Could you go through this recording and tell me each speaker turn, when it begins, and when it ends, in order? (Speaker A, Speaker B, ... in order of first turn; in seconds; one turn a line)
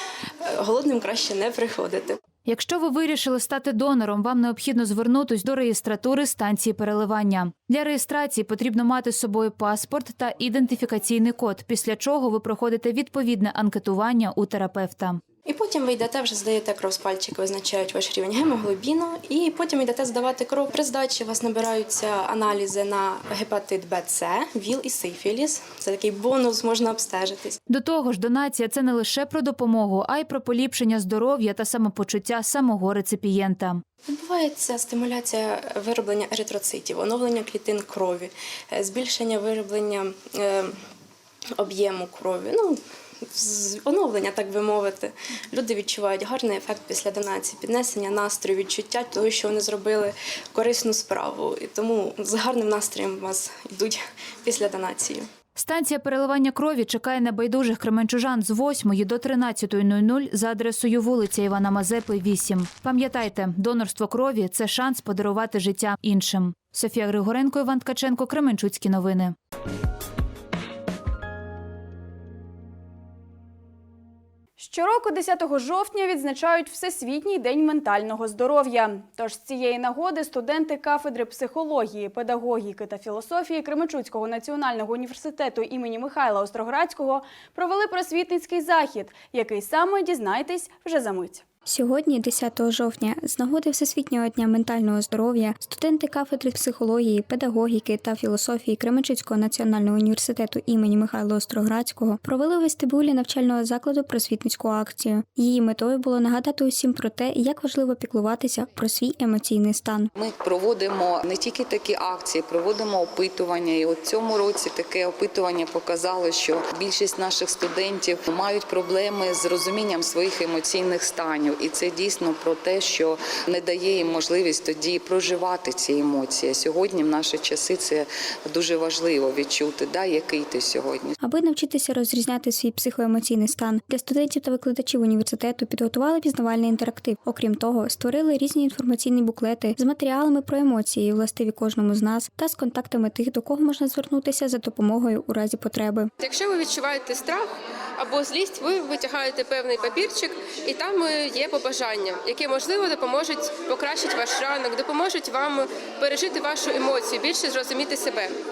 Speaker A: 0.4-2.2
Speaker B: 2.4-15.2
Speaker A: 15.4-27.6
Speaker B: 27.7-33.8
Speaker A: 34.1-40.8
Speaker A: 41.5-55.3
Speaker B: 55.6-69.3
Speaker C: 74.6-91.4
Speaker D: 91.7-110.1
Speaker E: 110.2-131.2
Speaker D: 131.2-146.1
Speaker F: 146.2-147.4
Speaker F: 148.0-158.3